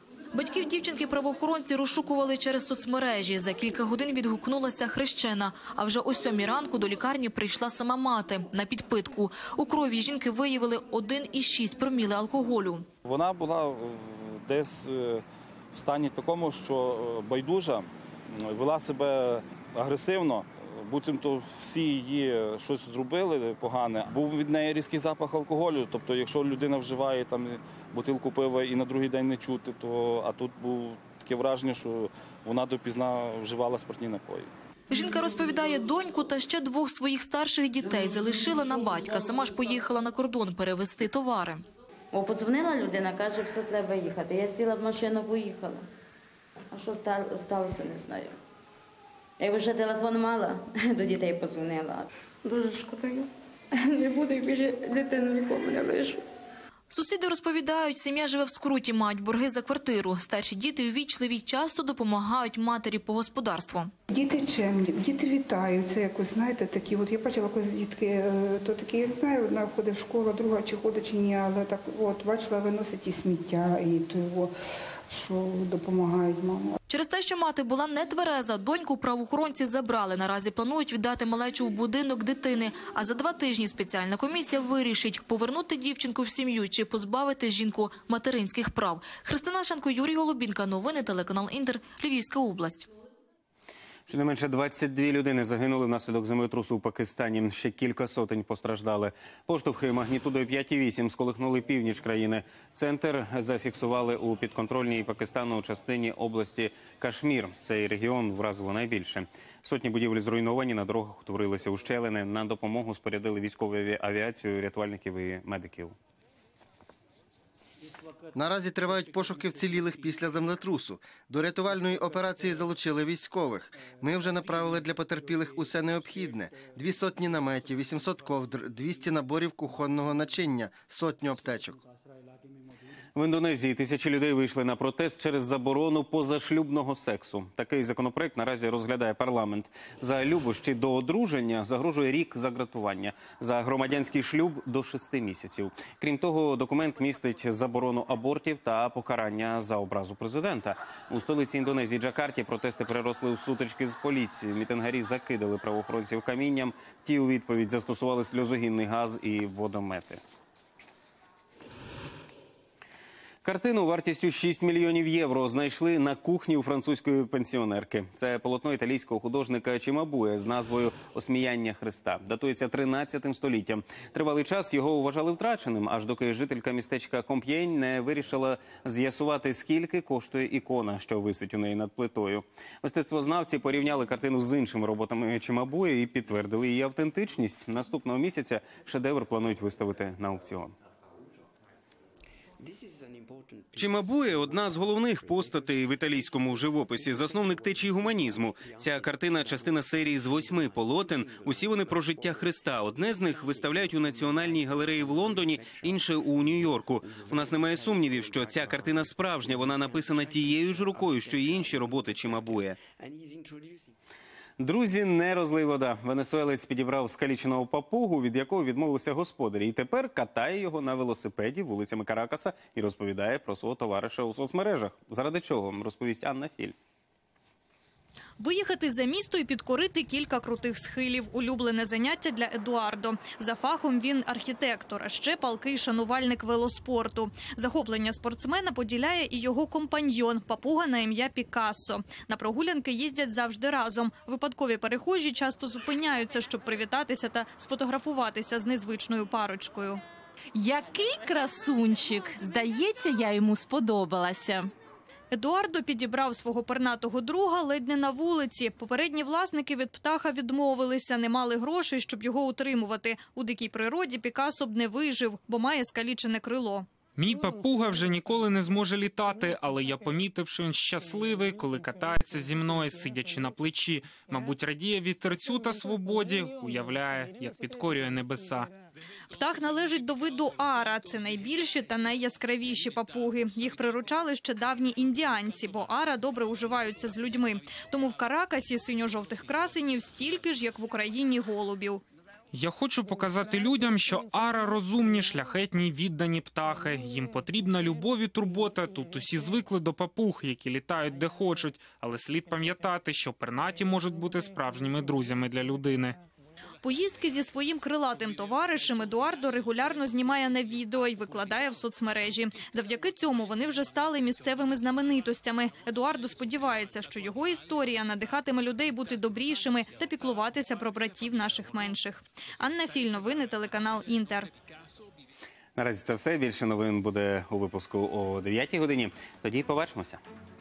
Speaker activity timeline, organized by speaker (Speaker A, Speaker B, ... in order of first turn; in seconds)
Speaker A: 0.3-12.9, 34.9-41.6, 56.9-63.9, 76.9-92.9
Speaker B: 13.0-34.5
Speaker C: 42.1-45.8, 46.7-48.3, 49.4-53.2, 54.4-54.7
Speaker D: 64.1-74.5, 75.1-76.7
Speaker E: 94.1-116.0, 133.2-160.2, 163.4-190.7, 193.7-212.8, 214.6-226.8, 325.8-330.2
Speaker F: 118.3-131.8
Speaker G: 228.4-250.0, 255.3-266.9, 279.3-292.0, 306.8-324.5
Speaker H: 250.5-254.7
Speaker I: 267.2-278.7, 292.5-306.2